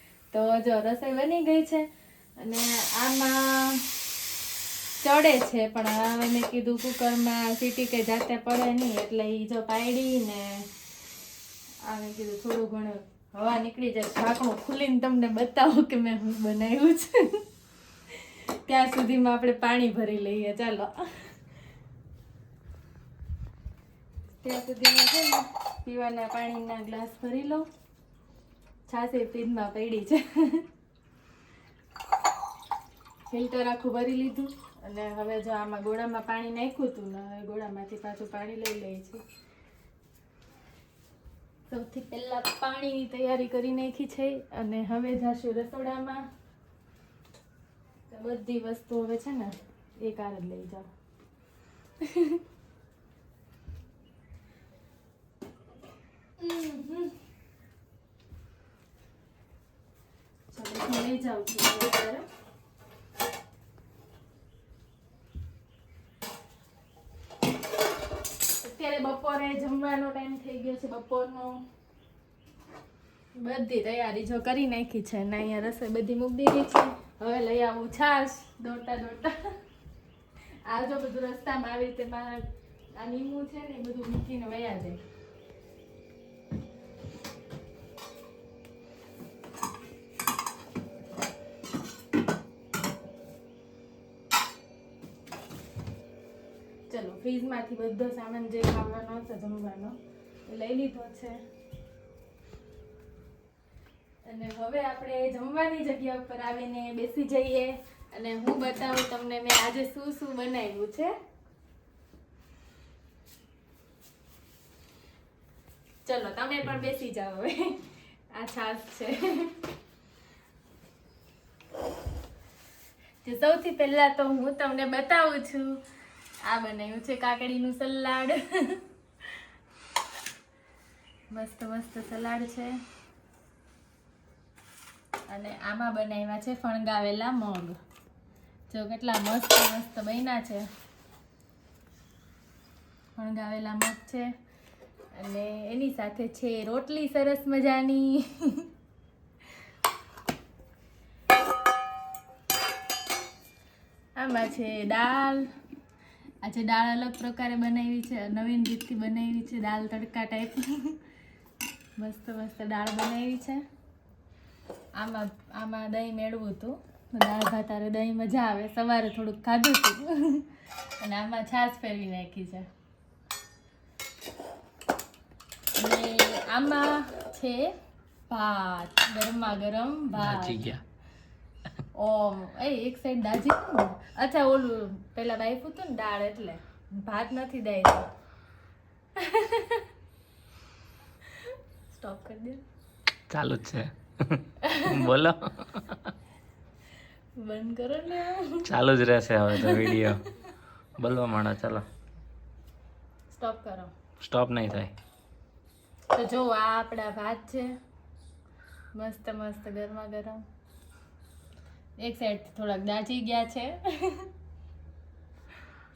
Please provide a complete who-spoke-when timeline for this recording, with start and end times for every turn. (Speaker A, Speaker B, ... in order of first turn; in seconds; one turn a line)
Speaker A: 0.3-1.9
Speaker A: 2.4-3.9
Speaker A: 5.0-10.7
Speaker A: 11.8-17.4
Speaker A: 18.1-21.3
Speaker A: 24.4-27.7
Speaker A: 28.9-30.7
Speaker A: 33.3-39.2
Speaker A: 41.7-46.3
Speaker A: 48.1-50.9
Speaker A: 52.0-52.4
Speaker A: 56.4-57.2
Speaker A: 60.5-62.3
Speaker A: 68.6-71.7
Speaker A: 73.4-79.6
Speaker A: 80.7-85.0
Speaker A: 96.9-101.4
Speaker A: 104.2-111.1
Speaker A: 116.0-119.6
Speaker A: 123.2-125.8
Speaker A: 126.5-128.8
Speaker A: 131.3-132.8
Speaker A: 135.3-137.8
Speaker A: 138.7-140.7
Speaker A: 143.2-144.3
Speaker A: 145.1-148.7
Speaker A: 154.2-155.5
Speaker A: 156.4-161.0
Speaker A: 162.0-163.6
Speaker A: 165.0-170.5
Speaker A: 171.0-172.7
Speaker A: 175.8-177.8
Speaker A: 178.3-180.6
Speaker B: 180.2-180.8
Speaker A: 181.9-188.1
Speaker A: 189.2-189.9
Speaker A: 191.3-192.6
Speaker B: 193.3-196.1
Speaker A: 194.6-195.1
Speaker A: 197.4-198.7
Speaker B: 198.7-200.2
Speaker A: 199.5-200.5
Speaker B: 201.0-201.8
Speaker A: 203.3-203.9
Speaker B: 204.2-204.9
Speaker A: 206.1-207.7
Speaker A: 208.9-210.4
Speaker A: 212.0-214.3